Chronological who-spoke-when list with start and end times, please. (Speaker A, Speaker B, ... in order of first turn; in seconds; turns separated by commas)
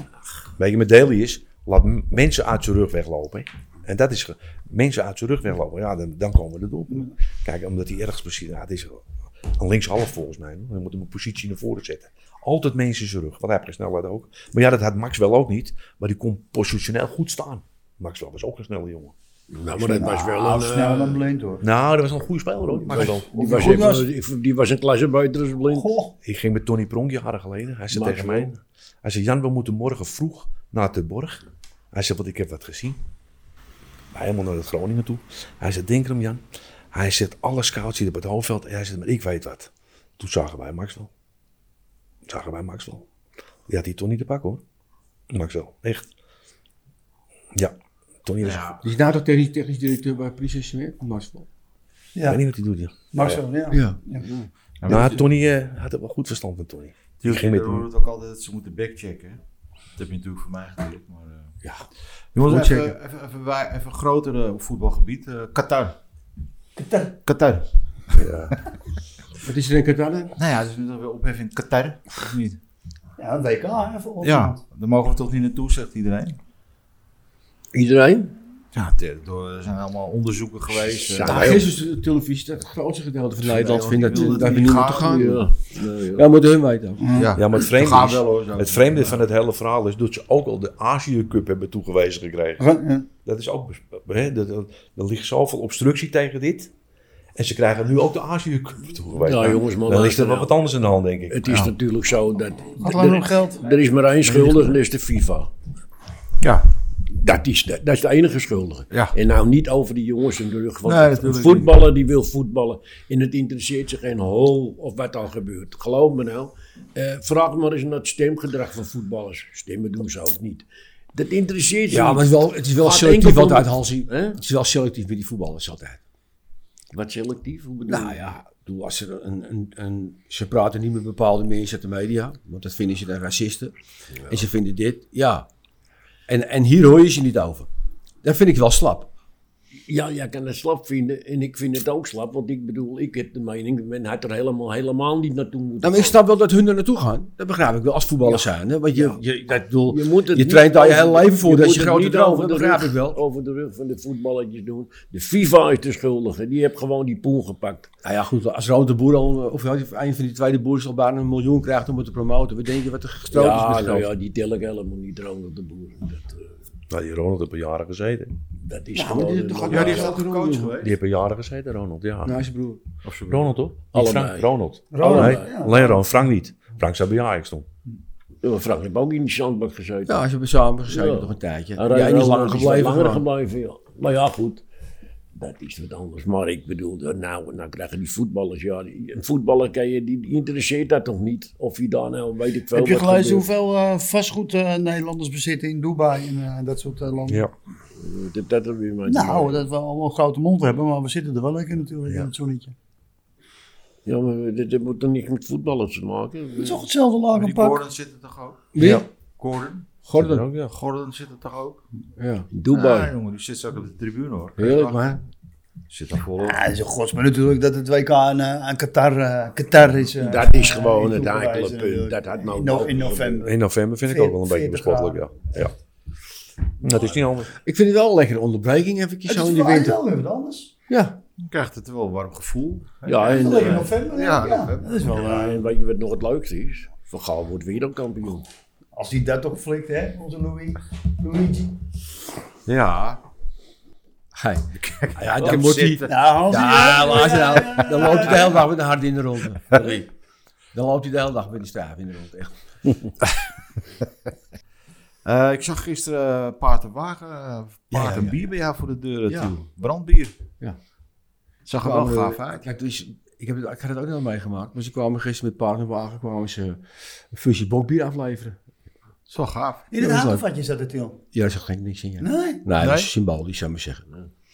Speaker A: 0.6-19.1, Speaker B: 19.5-21.2, Speaker C: 19.8-21.6, Speaker A: 21.6-23.6, Speaker B: 22.9-25.9, Speaker C: 22.9-24.1, Speaker C: 25.7-26.1, Speaker A: 26.2-33.0, Speaker B: 27.9-28.5, Speaker A: 34.1-36.4, Speaker A: 36.9-41.1, Speaker A: 42.3-43.0, Speaker A: 43.7-44.6, Speaker A: 45.3-46.1, Speaker A: 47.5-48.8, Speaker D: 48.4-48.8, Speaker E: 48.8-51.5, Speaker C: 52.1-52.4, Speaker A: 52.2-53.4, Speaker C: 53.1-54.3, Speaker E: 53.7-54.0, Speaker D: 54.8-55.2, Speaker A: 54.9-57.9, Speaker D: 57.2-59.4, Speaker D: 60.0-61.5, Speaker D: 62.3-66.0, Speaker E: 62.4-62.9, Speaker C: 66.8-67.1, Speaker D: 67.2-68.2, Speaker A: 68.1-68.6, Speaker E: 69.4-70.3, Speaker D: 70.4-72.6, Speaker C: 73.2-74.6, Speaker D: 74.2-76.4, Speaker B: 77.7-78.3, Speaker D: 78.7-81.6, Speaker B: 80.8-81.7, Speaker E: 81.2-85.4, Speaker D: 83.4-85.4, Speaker B: 84.1-86.3, Speaker E: 86.1-87.2, Speaker C: 87.0-87.3, Speaker D: 87.1-89.2, Speaker A: 87.3-92.7, Speaker C: 92.6-93.1, Speaker A: 93.2-96.7, Speaker A: 97.3-101.7, Speaker B: 99.2-100.6, Speaker B: 101.3-105.5, Speaker C: 102.8-103.7, Speaker B: 107.2-124.4, Speaker D: 110.8-111.7, Speaker E: 121.9-126.0, Speaker B: 126.9-128.2, Speaker E: 127.8-133.7, Speaker B: 134.2-134.4, Speaker E: 134.3-135.5, Speaker E: 136.3-137.7, Speaker E: 138.2-139.1, Speaker B: 139.9-146.2, Speaker E: 145.8-153.2, Speaker B: 148.2-149.2, Speaker B: 149.9-157.9, Speaker E: 158.0-164.1, Speaker B: 163.3-166.5, Speaker A: 166.9-168.3, Speaker B: 168.6-170.2, Speaker E: 168.9-170.8, Speaker D: 169.7-170.9, Speaker A: 170.8-172.4, Speaker E: 172.2-172.8, Speaker D: 173.0-173.6, Speaker A: 173.3-177.7, Speaker B: 173.9-175.5, Speaker C: 174.9-176.0, Speaker B: 178.4-180.2, Speaker E: 180.1-183.2, Speaker B: 180.9-184.6, Speaker B: 185.3-193.5, Speaker C: 192.7-197.4, Speaker A: 197.3-197.5, Speaker B: 198.0-199.6, Speaker C: 199.1-202.7, Speaker B: 204.1-206.8, Speaker C: 206.6-207.8, Speaker D: 207.3-209.9, Speaker E: 208.7-209.1, Speaker A: 208.8-209.1, Speaker E: 210.0-210.4, Speaker A: 210.1-210.8, Speaker D: 210.7-211.8, Speaker E: 212.2-212.5, Speaker B: 212.5-213.1, Speaker D: 212.7-215.2, Speaker E: 214.6-215.2, Speaker D: 215.9-216.6, Speaker C: 216.4-225.2, Speaker B: 220.2-223.5, Speaker A: 223.4-225.7, Speaker A: 226.8-227.5, Speaker E: 227.5-230.0, Speaker C: 229.3-230.7, Speaker E: 230.9-231.2, Speaker D: 231.4-235.1, Speaker B: 233.0-233.9, Speaker C: 233.2-235.6, Speaker B: 235.1-238.5, Speaker C: 238.9-241.8, Speaker D: 242.7-243.2, Speaker E: 244.3-250.1, Speaker D: 244.8-247.0, Speaker C: 246.1-248.6, Speaker E: 250.7-252.6, Speaker D: 255.2-260.4, Speaker E: 257.9-258.4, Speaker E: 259.3-259.5, Speaker D: 261.6-262.6, Speaker E: 261.8-268.6, Speaker D: 269.3-269.9, Speaker C: 269.9-271.2, Speaker E: 270.0-270.4, Speaker E: 271.3-274.0, Speaker C: 272.2-272.7, Speaker D: 272.8-273.1